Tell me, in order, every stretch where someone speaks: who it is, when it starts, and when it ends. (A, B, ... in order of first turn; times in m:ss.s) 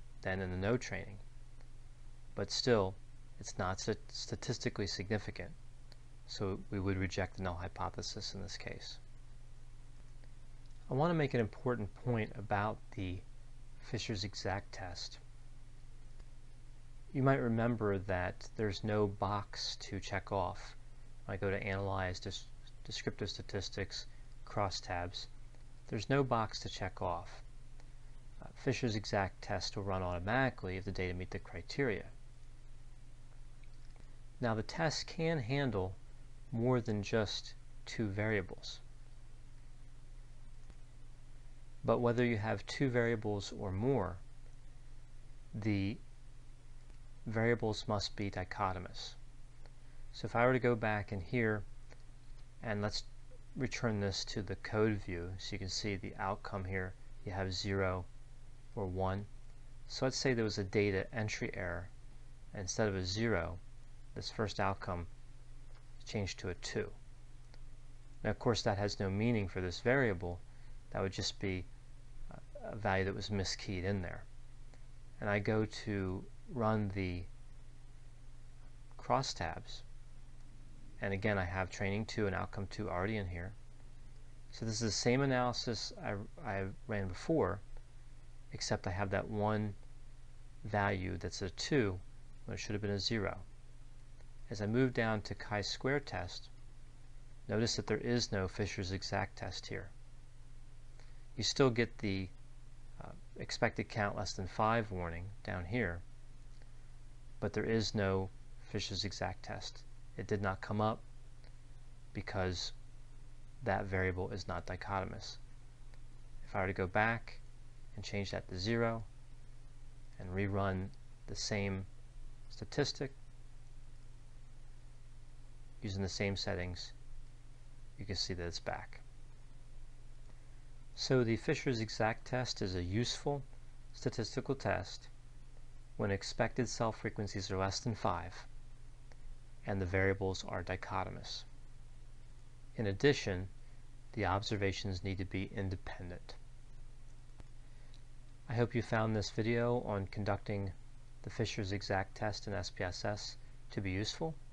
0:00.2-0:01.2 A
0:02.3-0:05.6 A
0:06.3-0:09.0 A
0:10.9-0:13.2 A
0:13.8-0:15.2 A
0:17.1-0:25.3 A
0:25.9-0:27.4 A
0:28.5-0:32.1 A
0:34.4-0:36.0 A
0:36.5-0:38.8 A
0:41.8-0:44.2 A
0:45.5-0:46.0 A
0:47.2-0:49.2 A
0:50.1-0:51.6 A
0:52.6-0:58.1 A
0:58.7-0:59.3 A
0:59.9-1:01.9 A
1:02.5-1:03.6 A
1:04.1-1:05.1 A
1:06.0-1:07.0 A
1:08.2-1:11.7 A
1:12.3-1:14.3 A
1:15.2-1:17.3 A
1:19.0-1:19.8 A
1:21.0-1:23.6 A
1:24.5-1:27.6 A
1:28.5-1:29.8 A
1:30.6-1:33.4 A
1:34.5-1:36.5 A
1:37.5-1:39.9 A
1:41.3-1:42.3 A
1:43.0-1:46.0 A
1:47.4-1:51.0 A
1:52.1-1:52.7 A
1:53.6-1:55.4 A
1:56.4-1:57.4 A
1:57.9-1:59.1 A
2:00.2-2:01.9 A
2:02.5-2:03.2 A
2:05.8-2:06.9 A
2:08.0-2:09.0 A
2:11.0-2:15.1 A
2:16.0-2:18.5 A
2:19.6-2:21.5 A
2:22.7-2:23.5 A
2:24.1-2:26.4 A
2:28.5-2:34.4 A